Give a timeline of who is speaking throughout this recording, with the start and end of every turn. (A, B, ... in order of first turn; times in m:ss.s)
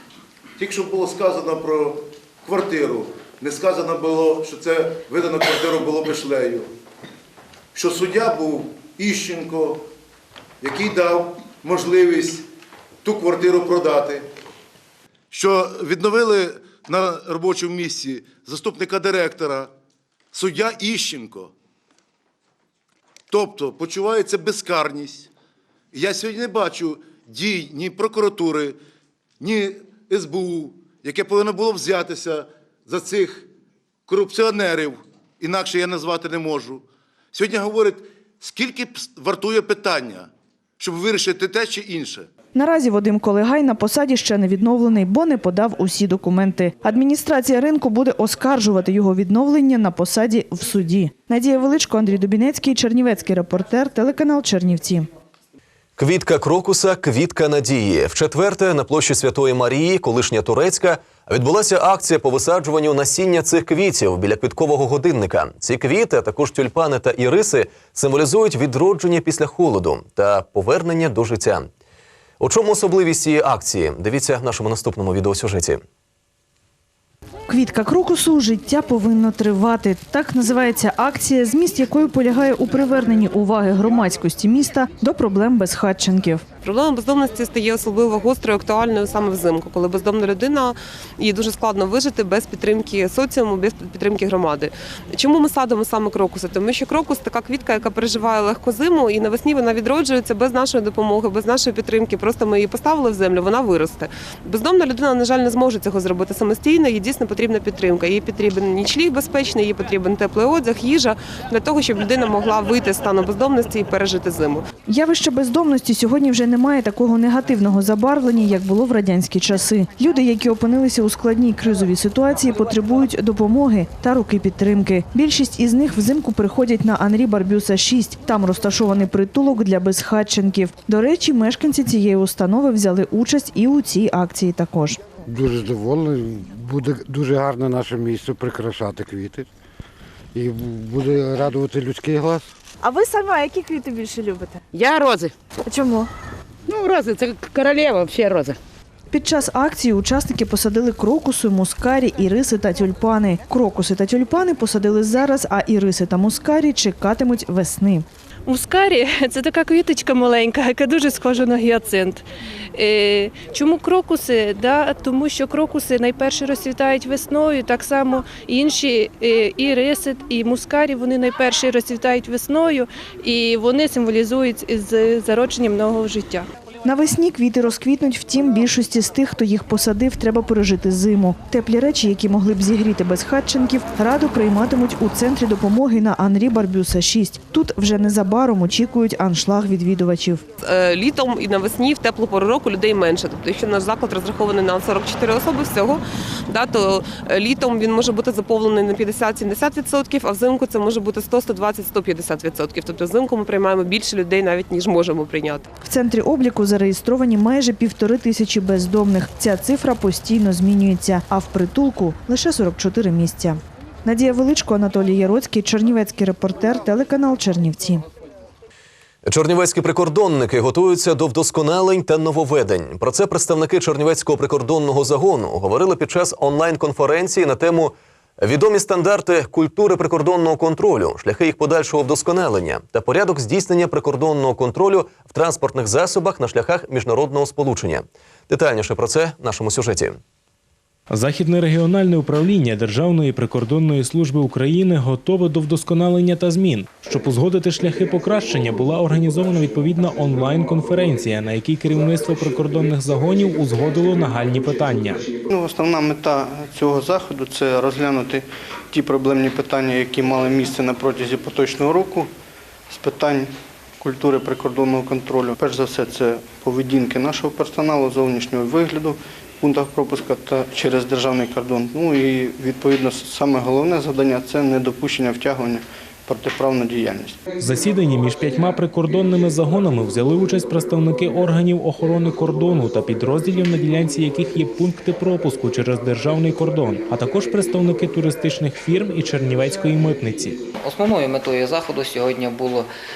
0:00.6-0:06.7 A
0:07.7-0:09.8 A
0:10.6-0:12.4 A
0:13.0-0:14.2 A
0:15.3-0:19.7 A
0:20.3-0:21.5 A
0:23.3-0:25.3 A
0:25.9-0:28.8 A
0:29.4-0:33.5 A
0:34.1-0:40.3 A
0:40.8-0:42.3 A
0:42.5-0:55.1 B
0:56.0-1:11.7 C
1:12.4-1:15.8 C
1:17.5-1:26.4 B
1:26.6-1:54.6 D
1:54.9-2:15.0 B
2:15.3-2:19.4 E
2:20.3-2:22.4 E
2:22.8-2:24.6 B
2:24.7-2:25.3 F
2:25.7-2:26.0 B
2:26.7-2:28.5 F
2:29.1-2:38.0 B
2:38.4-2:42.2 G
2:42.7-2:56.4 G
2:56.8-3:10.4 B
3:10.6-3:25.6 D
3:25.8-3:38.0 B
3:39.2-4:00.2 C
4:01.1-4:15.2 H
4:15.5-4:22.3 I
4:22.9-4:37.4 I
4:37.6-4:50.6 H
4:50.8-4:52.9 J